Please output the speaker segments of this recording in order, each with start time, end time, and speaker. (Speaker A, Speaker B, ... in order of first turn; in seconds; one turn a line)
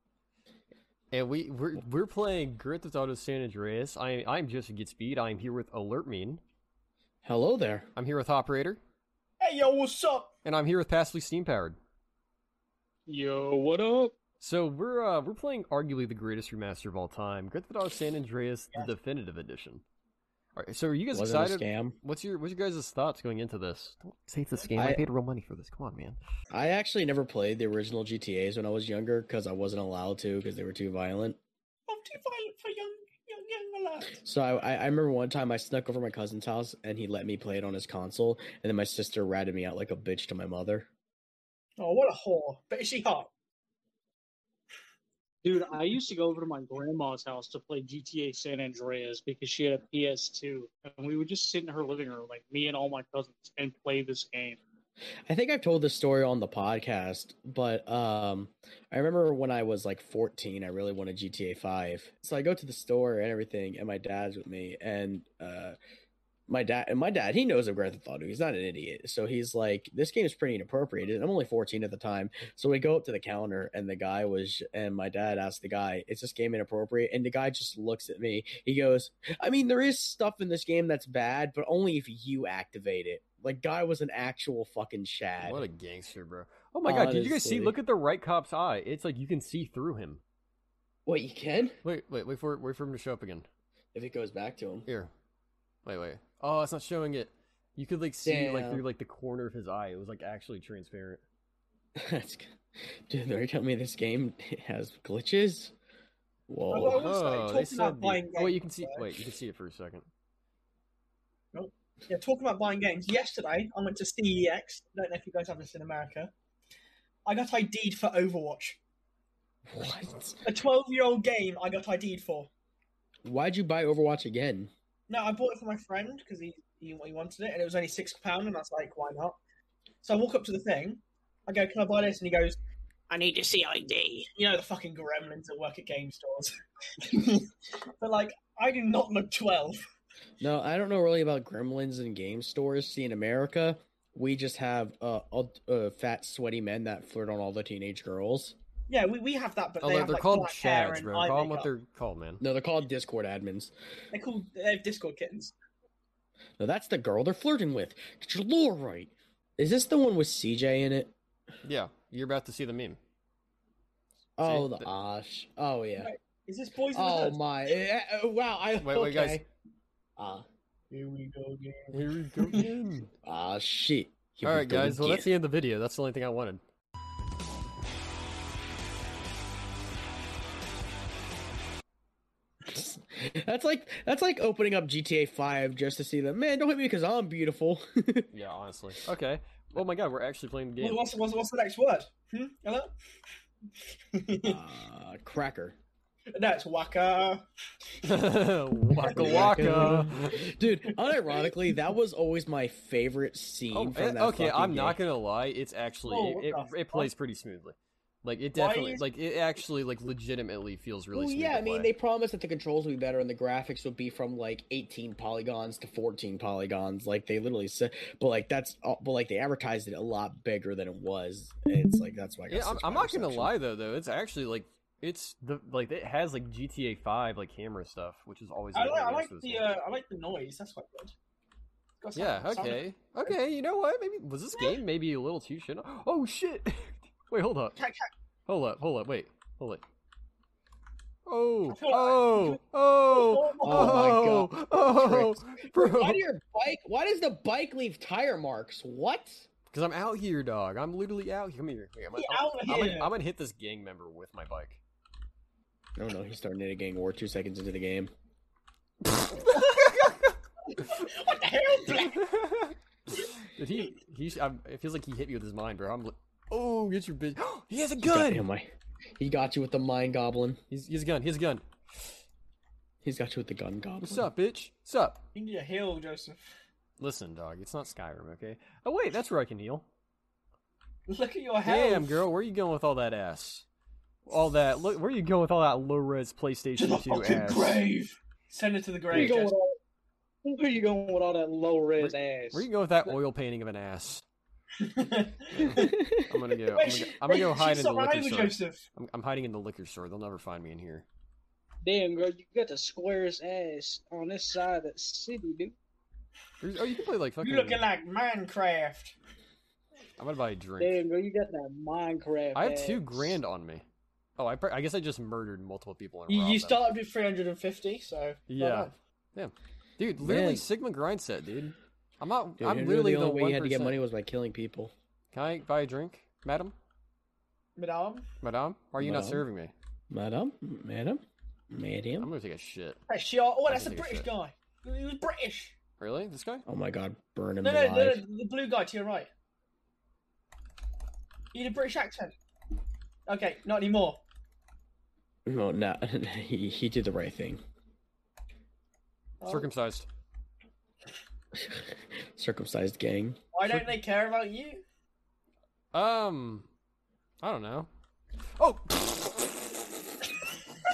Speaker A: 1.1-6.4
Speaker B: 7.2-7.9
Speaker A: 7.9-8.8
Speaker C: 9.4-10.3
Speaker A: 10.4-11.8
Speaker D: 13.1-14.1
Speaker A: 14.4-19.8
Speaker A: 20.6-26.2
Speaker B: 21.1-22.0
Speaker B: 24.8-25.0
Speaker B: 26.5-31.4
Speaker C: 31.9-34.2
Speaker B: 34.2-40.9
Speaker C: 41.8-43.3
Speaker D: 45.4-54.6
Speaker B: 55.3-65.8
Speaker B: 66.5-85.6
Speaker A: 85.4-90.2
Speaker B: 86.8-87.8
Speaker B: 91.0-91.8
Speaker A: 91.8-93.5
Speaker B: 93.9-94.9
Speaker A: 95.8-101.2
Speaker B: 98.2-98.8
Speaker B: 102.0-102.5
Speaker B: 103.1-105.7
Speaker B: 106.5-107.0
Speaker C: 106.7-109.1
Speaker A: 106.9-110.1
Speaker C: 111.5-116.3
Speaker C: 117.2-118.8
Speaker B: 119.7-120.4
Speaker C: 120.5-122.5
Speaker B: 123.2-124.7
Speaker C: 125.1-129.4
Speaker C: 130.0-137.5
Speaker C: 138.0-139.8
Speaker B: 140.4-148.6
Speaker C: 148.9-151.7
Speaker A: 149.8-152.4
Speaker B: 152.4-153.7
Speaker C: 154.1-155.5
Speaker B: 156.6-161.1
Speaker A: 161.6-163.0
Speaker B: 164.4-166.1
Speaker A: 164.4-164.9
Speaker C: 166.0-167.4
Speaker B: 166.9-169.4
Speaker A: 168.8-169.4
Speaker B: 170.2-170.4
Speaker C: 170.9-172.6
Speaker A: 171.9-173.1
Speaker B: 173.2-175.3
Speaker A: 174.4-176.6
Speaker B: 182.7-188.3
Speaker A: 188.3-191.1
Speaker C: 190.8-192.9
Speaker C: 194.1-194.6
Speaker B: 194.4-195.8
Speaker C: 196.3-197.4
Speaker A: 198.0-200.1
Speaker C: 199.0-200.3
Speaker B: 199.2-205.0
Speaker C: 200.9-201.5
Speaker A: 203.7-211.9
Speaker C: 206.0-207.1
Speaker C: 208.5-209.0
Speaker B: 211.1-223.5
Speaker A: 222.5-229.7
Speaker C: 228.7-231.1
Speaker C: 232.0-232.8
Speaker A: 232.1-237.8
Speaker C: 237.8-238.1
Speaker A: 238.5-239.8
Speaker A: 241.2-246.2
Speaker C: 241.7-244.1
Speaker B: 243.6-249.4
Speaker A: 249.7-254.8
Speaker C: 252.1-253.1
Speaker B: 255.9-258.1
Speaker A: 259.2-260.2
Speaker C: 260.7-262.2
Speaker A: 262.1-268.4
Speaker B: 268.0-270.6
Speaker A: 270.7-271.6
Speaker B: 273.0-274.3
Speaker A: 274.0-275.2
Speaker C: 275.3-276.4
Speaker A: 277.0-279.9
Speaker C: 281.1-282.2
Speaker A: 281.6-283.6
Speaker A: 284.2-287.8
Speaker C: 286.8-289.5
Speaker A: 289.1-289.4
Speaker D: 289.1-289.8
Speaker D: 290.4-292.6
Speaker A: 292.0-294.2
Speaker C: 294.8-295.9
Speaker A: 295.5-301.1
Speaker B: 295.7-296.3
Speaker C: 296.7-298.8
Speaker D: 301.8-305.7
Speaker A: 306.6-307.8
Speaker C: 307.4-309.1
Speaker A: 310.2-311.0
Speaker D: 310.8-313.4
Speaker A: 312.5-313.8
Speaker A: 314.4-316.9
Speaker C: 316.3-318.9
Speaker A: 318.5-323.9
Speaker B: 320.2-320.7
Speaker B: 322.6-324.9
Speaker A: 325.3-326.7
Speaker C: 327.8-328.2
Speaker A: 328.4-329.7
Speaker B: 329.0-329.4
Speaker B: 330.1-332.3
Speaker A: 332.2-333.0
Speaker C: 333.1-335.7
Speaker A: 333.7-334.3
Speaker A: 336.0-336.6
Speaker B: 336.7-338.2
Speaker C: 337.6-339.3
Speaker C: 341.5-342.3
Speaker C: 343.3-344.2
Speaker B: 345.4-347.6
Speaker C: 349.4-349.6
Speaker A: 349.4-350.1
Speaker B: 351.5-353.4
Speaker C: 353.5-354.8
Speaker A: 355.9-356.7
Speaker A: 357.4-357.9
Speaker A: 358.6-359.5